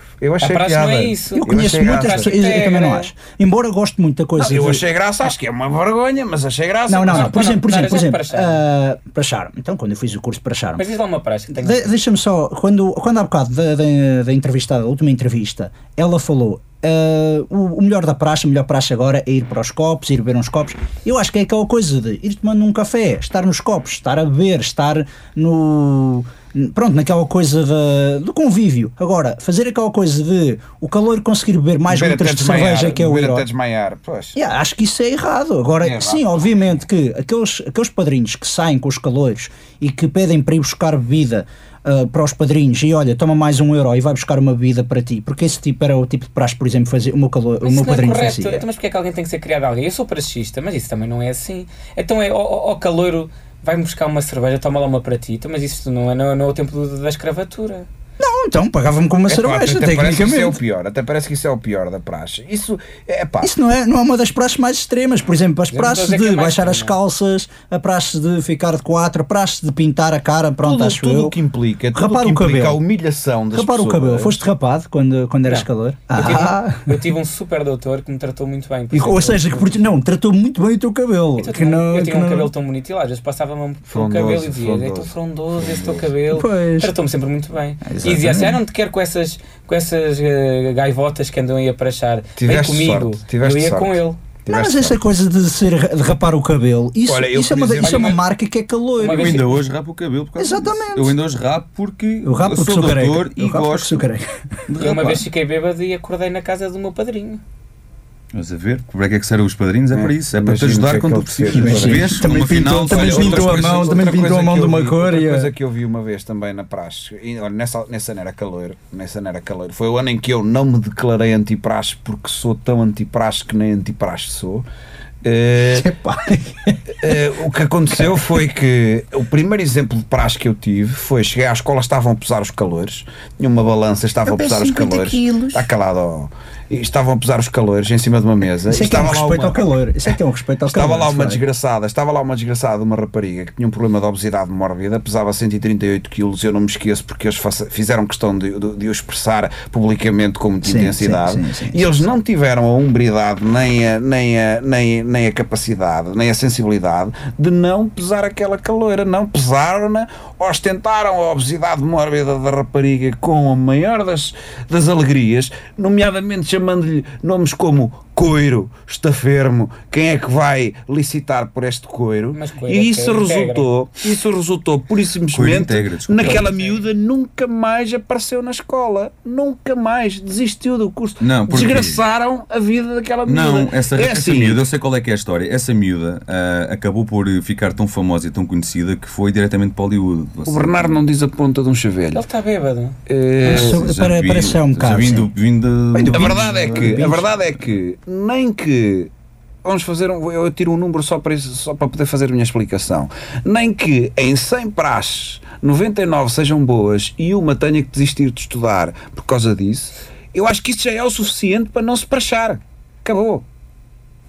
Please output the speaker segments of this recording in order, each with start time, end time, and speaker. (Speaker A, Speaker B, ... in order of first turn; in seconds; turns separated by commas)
Speaker A: 0.2-2.3, Speaker B: 0.4-3.1, Speaker C: 1.4-4.8, Speaker A: 4.4-7.5, Speaker C: 6.9-10.9, Speaker B: 7.1-8.6, Speaker B: 10.8-11.9, Speaker C: 11.5-33.5, Speaker A: 31.9-34.4, Speaker C: 34.4-48.6, Speaker A: 35.8-36.4, Speaker B: 47.6-57.9, Speaker C: 58.2-60.6, Speaker A: 59.3-63.5, Speaker C: 63.4-71.4, Speaker B: 65.7-66.9, Speaker A: 70.6-74.4, Speaker C: 71.9-72.8, Speaker C: 73.5-77.0, Speaker B: 75.5-79.7, Speaker C: 78.9-82.5, Speaker B: 81.4-94.2, Speaker A: 83.9-86.1, Speaker C: 86.3-86.9, Speaker C: 87.8-88.6, Speaker A: 92.4-95.0, Speaker C: 94.5-99.6, Speaker A: 97.1-98.2, Speaker B: 97.8-98.2, Speaker B: 99.0-99.5, Speaker D: 99.1-104.0, Speaker C: 100.4-101.2, Speaker C: 102.2-104.2, Speaker D: 104.7-105.2, Speaker B: 104.8-107.4, Speaker D: 108.3-114.1, Speaker A: 109.9-124.7, Speaker C: 111.5-115.5, Speaker A: 125.2-125.9, Speaker C: 125.7-127.2, Speaker A: 127.0-139.6, Speaker C: 138.6-141.4, Speaker A: 140.7-184.6, Speaker C: 150.6-152.1, Speaker B: 172.3-173.7, Speaker D: 175.3-176.5, Speaker B: 176.2-176.8, Speaker D: 181.2-182.0, Speaker D: 183.2-191.0, Speaker A: 190.5-192.2, Speaker B: 192.1-193.0, Speaker A: 193.1-193.8, Speaker C: 193.4-195.3, Speaker D: 193.4-197.2, Speaker C: 195.9-197.3, Speaker A: 196.1-199.1, Speaker A: 199.6-213.4